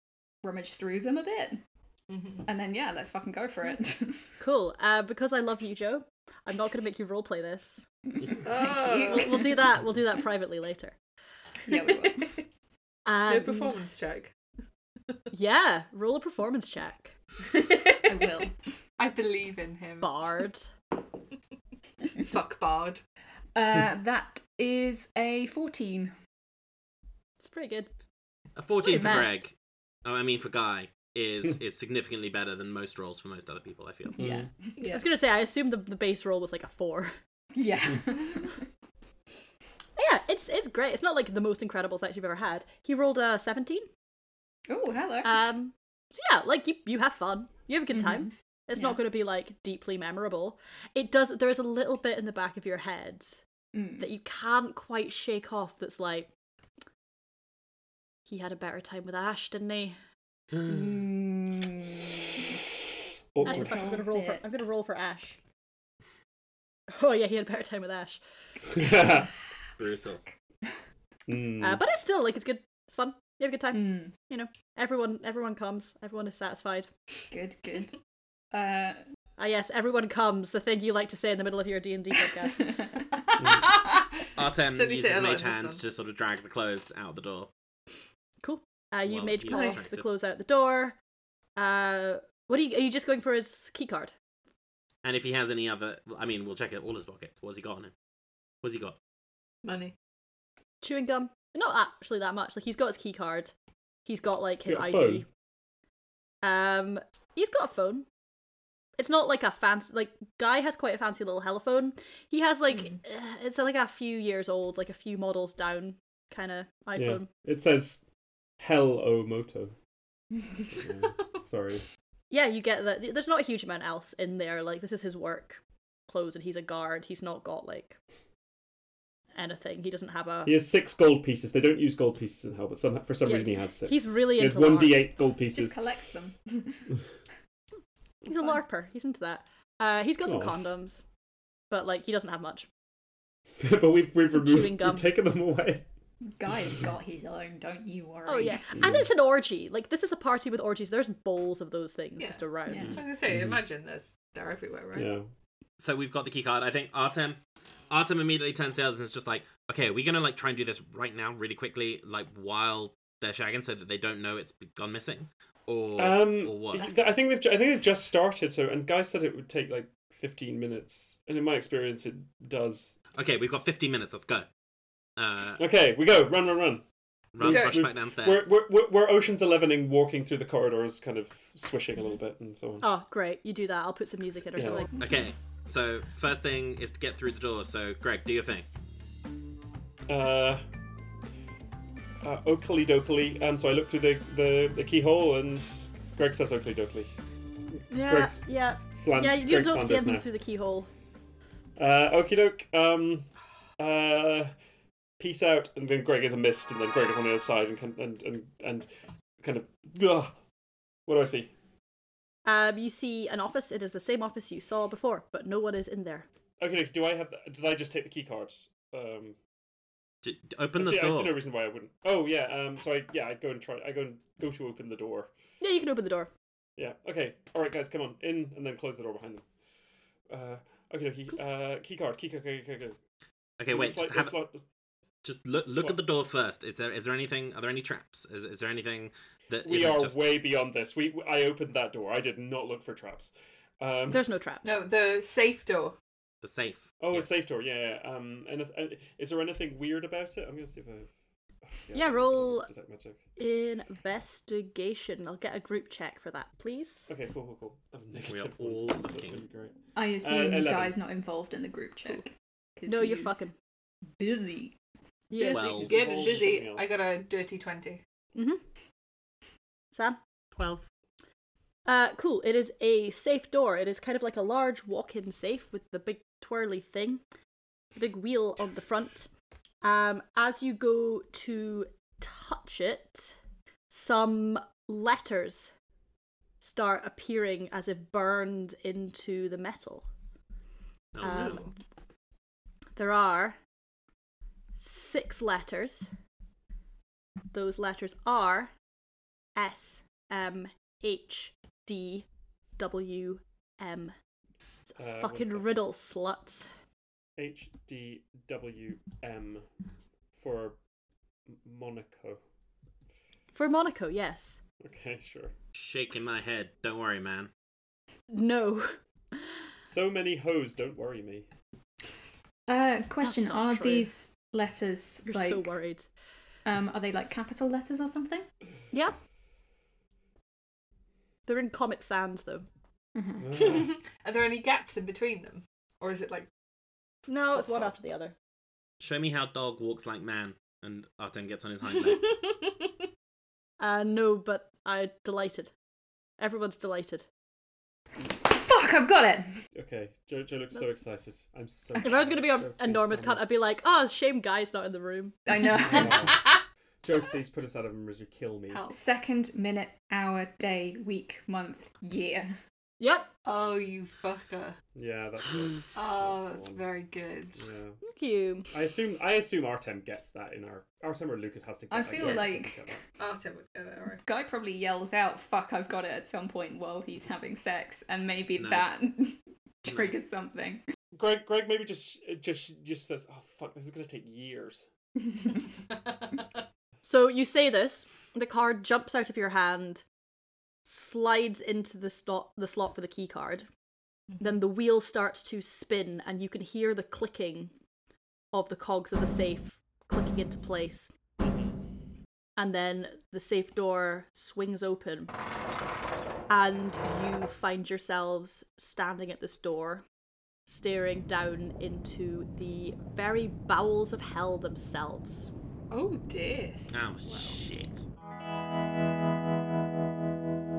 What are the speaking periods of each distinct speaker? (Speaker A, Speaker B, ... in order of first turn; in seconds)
Speaker A: 0.4-1.6, 2.5-4.3, 8.2-9.6, 11.7-12.3, 18.0-18.5, 23.6-26.1, 34.2-34.5, 37.5-38.5, 44.7-45.5, 47.9-49.0, 53.8-54.1, 60.6-62.6, 63.4-64.4, 73.7-74.1, 77.3-78.0, 78.5-79.0, 135.5-136.9, 146.4-148.6, 152.7-153.0, 259.9-263.5, 264.2-264.8, 322.7-325.7, 326.7-328.5, 333.1-333.5, 348.4-349.5, 355.5-356.3, 358.9-362.6, 371.9-372.9, 374.2-380.8
Speaker B: 2.1-2.5, 8.4-9.5, 13.2-14.3, 17.5-18.0, 19.0-20.1, 22.2-23.0, 34.8-35.0, 83.3-85.8, 89.5-89.8, 99.6-100.0, 152.2-155.1, 177.4-177.9, 244.6-246.0, 265.4-268.0, 291.4-291.7, 333.6-336.5, 337.6-337.8, 358.7-359.0, 363.4-364.8, 365.9-367.7, 373.2-374.2, 415.9-417.6
Speaker C: 4.4-7.8, 9.0-10.9, 13.1-13.8, 15.3-17.1, 20.0-20.7, 27.4-27.9, 28.8-29.4, 34.8-37.1, 40.0-43.9, 45.2-53.4, 54.0-56.3, 58.3-60.0, 63.4-65.4, 66.9-68.2, 71.6-76.9, 79.4-82.9, 88.4-91.0, 91.6-94.1, 100.8-103.5, 104.1-105.2, 106.4-108.1, 109.0-117.3, 122.3-128.0, 129.3-130.6, 133.2-135.1, 138.2-141.0, 141.7-142.7, 144.3-145.1, 148.3-153.0, 182.8-184.9, 197.9-200.9, 212.5-216.3, 225.6-226.3, 244.1-244.7, 251.9-252.7, 253.4-257.1, 262.9-263.5, 265.3-266.0, 269.9-270.2, 271.9-277.2, 278.0-279.3, 279.8-283.4, 283.9-285.7, 286.6-290.1, 291.2-291.7, 293.0-293.6, 294.8-296.1, 297.5-298.7, 299.6-302.3, 302.8-304.1, 304.9-306.7, 313.5-314.6, 318.3-318.9, 323.2-324.1, 325.3-326.1, 331.5-332.6, 337.3-338.3, 343.8-345.7, 346.4-347.2, 352.0-355.4, 363.0-363.3, 368.0-368.7, 387.0-390.0, 390.9-393.7, 394.4-397.7, 398.5-401.1, 402.6-405.3, 406.5-410.0, 410.7-415.5
Speaker D: 28.6-29.5, 30.0-34.2, 69.8-70.2, 84.4-87.5, 89.0-90.1, 95.0-97.9, 98.6-99.0, 155.8-157.4, 157.9-166.9, 173.1-174.5, 175.2-175.6, 177.3-178.5, 184.9-188.7, 220.2-221.4, 233.6-234.4, 235.2-240.4, 246.4-247.2, 258.2-259.4, 265.4-266.4, 291.1-291.6, 315.7-317.5, 339.0-342.5, 378.6-379.0, 416.9-418.0
Speaker E: 34.2-34.5, 63.3-63.8, 68.7-69.3, 71.3-71.8, 104.6-105.2, 117.0-118.0, 118.6-119.8, 120.7-121.8, 130.4-135.8, 140.3-140.5, 143.6-145.8, 152.8-153.6, 154.9-155.3, 166.0-173.0, 175.6-176.8, 177.4-182.9, 184.6-184.8, 190.1-190.6, 192.2-197.1, 198.0-198.4, 198.9-200.2, 201.8-204.5, 205.2-210.3, 211.1-211.5, 216.6-219.4, 220.8-225.3, 226.8-229.4, 230.3-233.0, 233.7-234.7, 239.6-244.2, 247.0-251.1, 251.8-253.2, 257.1-261.0, 265.5-267.0, 305.0-305.9, 307.4-309.7, 310.4-310.8, 311.5-312.4, 314.8-315.5, 319.8-321.5, 333.4-333.9, 349.8-353.5, 355.9-356.4, 357.0-358.9, 364.9-366.9, 367.6-368.0, 368.7-373.0, 381.1-384.9